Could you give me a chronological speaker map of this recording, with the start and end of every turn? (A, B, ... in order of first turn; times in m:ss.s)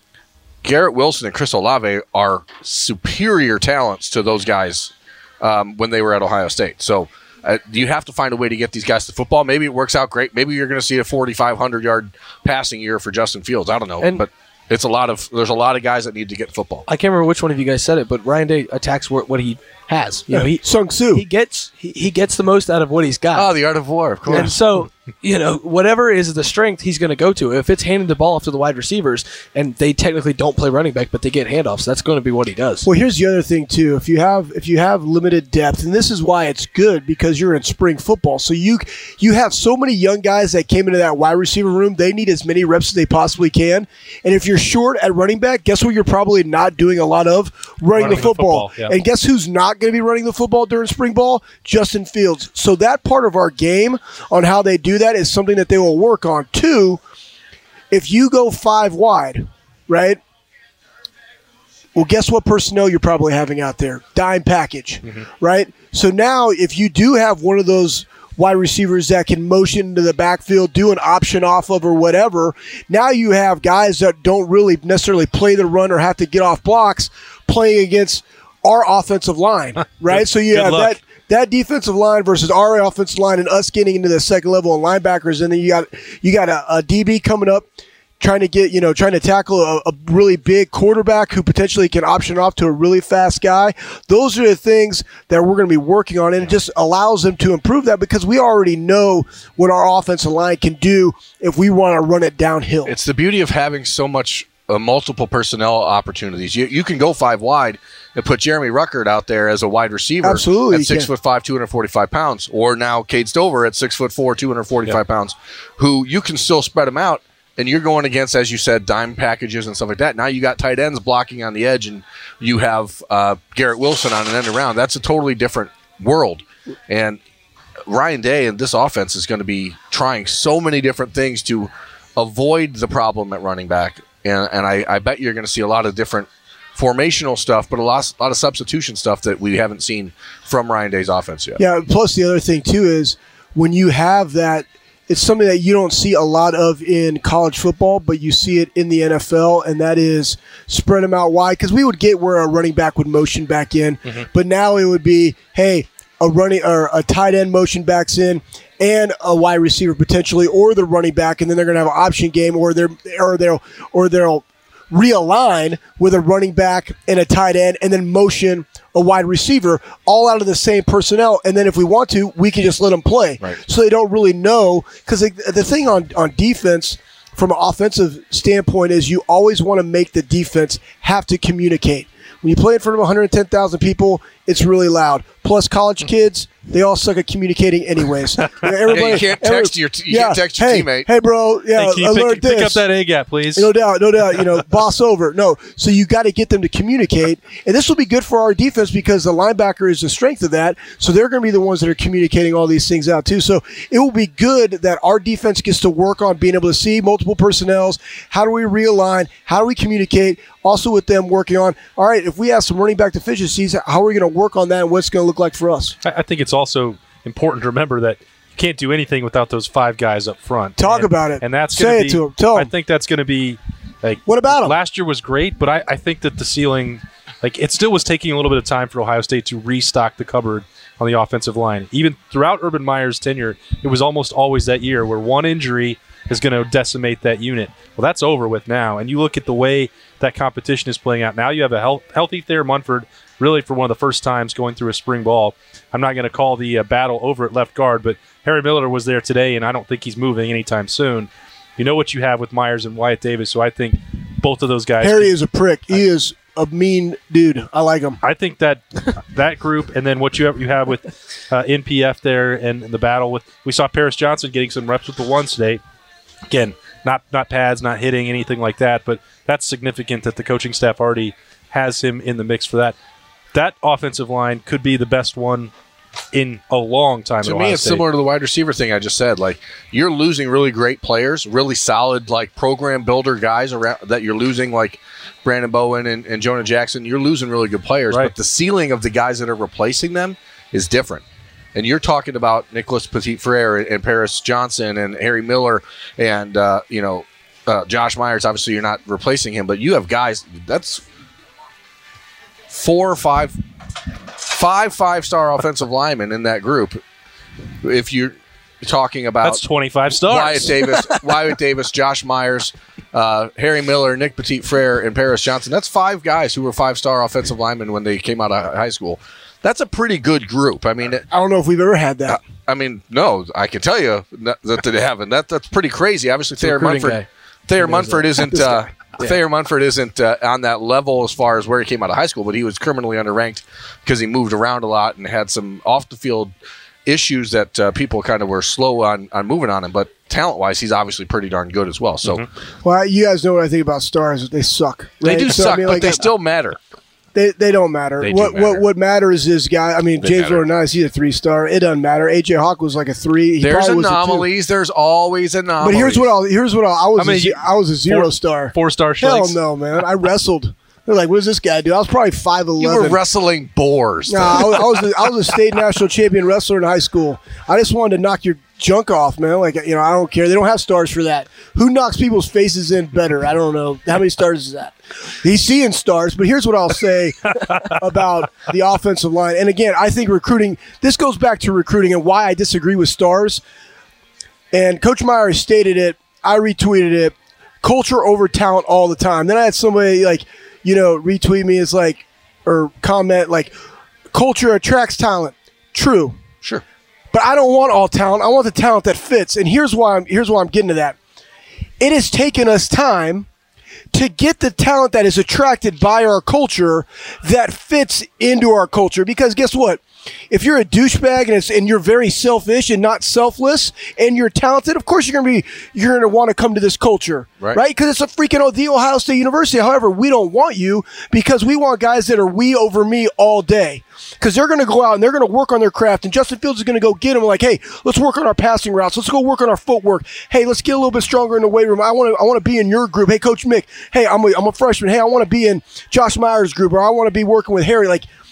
0:00.6-0:16.8 A
0:16.9-0:23.5 B
0:20.3-0:21.2 C
0:23.3-0:24.6 A
0:24.3-0:24.5 C
0:24.3-0:32.9 B
0:32.8-0:57.0 C
0:47.9-0:48.9 D
0:57.9-1:00.2 C
1:01.9-1:27.7 C
1:20.1-1:21.0 D
1:28.2-1:42.9 C
1:42.8-2:07.2 A
1:50.2-1:51.1 C
2:07.9-2:21.6 A
2:21.6-3:12.8 C
3:08.5-3:08.7 D
3:08.9-3:11.1 A
3:11.7-3:13.7 D
3:13.5-3:36.0 C
3:36.0-4:15.3 D
3:40.8-3:42.7 C
3:44.3-3:44.7 C
4:15.0-4:18.2 C
4:18.2-4:25.8 D
4:26.5-4:33.0 D
4:33.5-4:35.7 D
4:36.3-4:38.0 D
4:37.4-4:51.2 A
4:51.7-5:01.0 A
5:02.7-5:03.6 A
5:04.4-5:07.0 A
5:07.8-5:09.6 A
5:09.4-5:10.8 D
5:10.2-5:21.3 A
5:21.3-5:22.4 C
5:22.3-5:36.5 A
5:26.6-5:27.2 B
5:27.8-5:28.6 B
5:28.5-5:28.9 C
5:37.0-5:42.4 A
5:42.8-5:46.2 C
5:45.2-5:46.8 A
5:47.3-5:54.5 C
5:48.2-5:48.8 A
5:50.2-5:50.6 A
5:53.6-5:56.3 A
5:55.8-6:03.2 C
5:57.2-5:59.6 D
6:02.8-6:05.0 A
6:04.3-6:23.6 C
6:17.7-6:18.0 D
6:24.7-6:33.7 C
6:34.3-6:36.4 C
6:37.3-6:41.2 C
6:42.0-6:43.5 C
6:44.1-7:18.3 C